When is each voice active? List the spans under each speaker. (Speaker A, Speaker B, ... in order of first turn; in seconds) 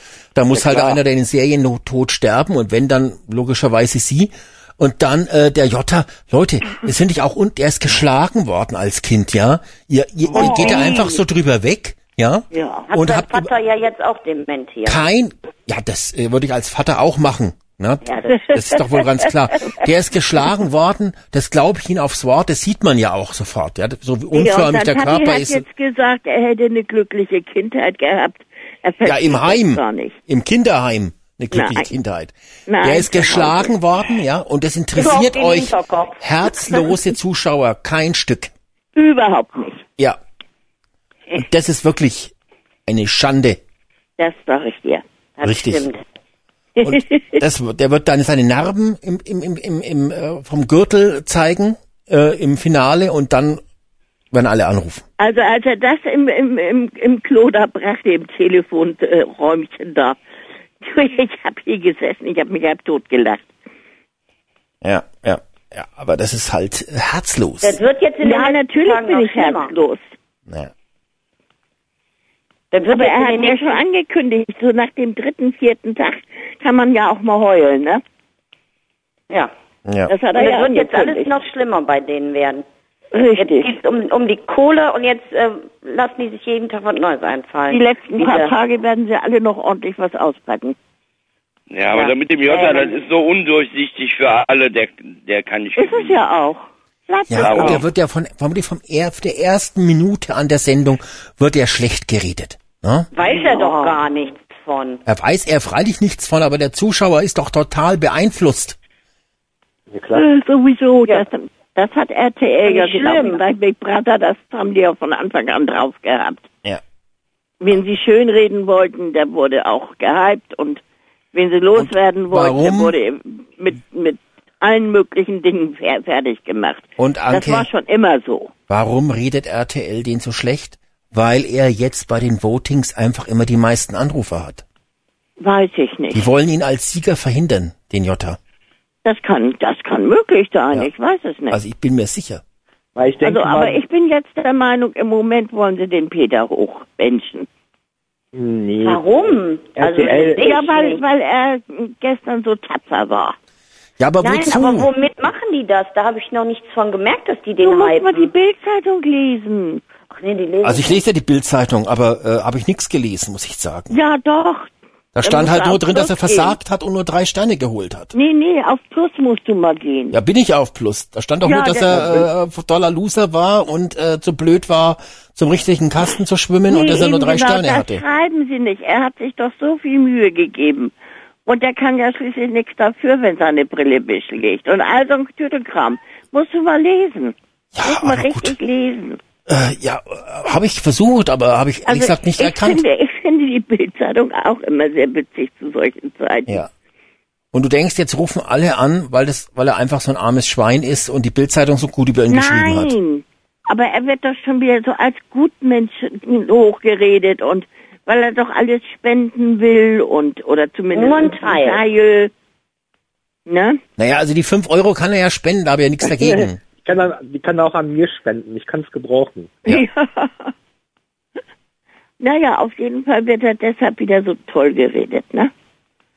Speaker A: 0.3-13.5, 14.8-25.6, 29.1-38.5, 41.4-42.3, 42.9-43.6, 45.4-45.9, 46.8-53.6, 54.3-55.0, 64.8-67.8, 79.9-80.1, 97.3-103.1, 105.1-108.8, 121.8-123.0, 127.0-127.7, 128.7-134.6, 136.1-138.4, 141.5-142.4, 154.0-154.9, 160.6-164.0, 165.2-168.2, 170.1-178.0, 187.7-188.6, 189.5-192.8, 197.5-203.0, 214.0-216.6
Speaker B: 10.3-11.2, 12.5-12.9, 24.3-30.2, 31.5-31.9, 32.7-33.7, 39.0-39.8, 44.2-45.0, 46.8-47.4, 55.2-60.2, 60.8-63.5, 68.2-70.1, 72.9-78.0, 80.1-81.3, 83.1-83.8, 87.7-90.8, 95.8-97.8, 103.3-104.0, 110.1-116.4, 117.6-120.8, 121.3-128.5, 135.4-136.3, 139.1-141.6, 143.2-147.5, 150.4-153.4, 157.6-159.8, 163.9-164.7, 165.2-166.6, 168.1-170.2, 171.4-172.2, 176.7-180.9, 181.5-189.2, 191.9-196.6, 202.3-212.3, 213.5-213.8, 219.7-220.5, 222.2-225.5
Speaker C: 10.4-10.7, 12.9-15.0, 18.0-18.8, 35.0-36.2, 45.4-46.0, 67.6-69.7, 72.7-73.8, 80.3-82.7, 83.4-88.5, 91.9-93.0, 103.1-105.0, 112.7-113.4, 148.8-151.0, 154.2-158.3, 160.1-161.0, 210.9-211.8
Speaker D: 91.7-96.2, 97.4-97.8
Speaker E: 109.9-110.2, 142.9-143.8, 148.3-149.0, 149.8-150.5, 216.0-219.6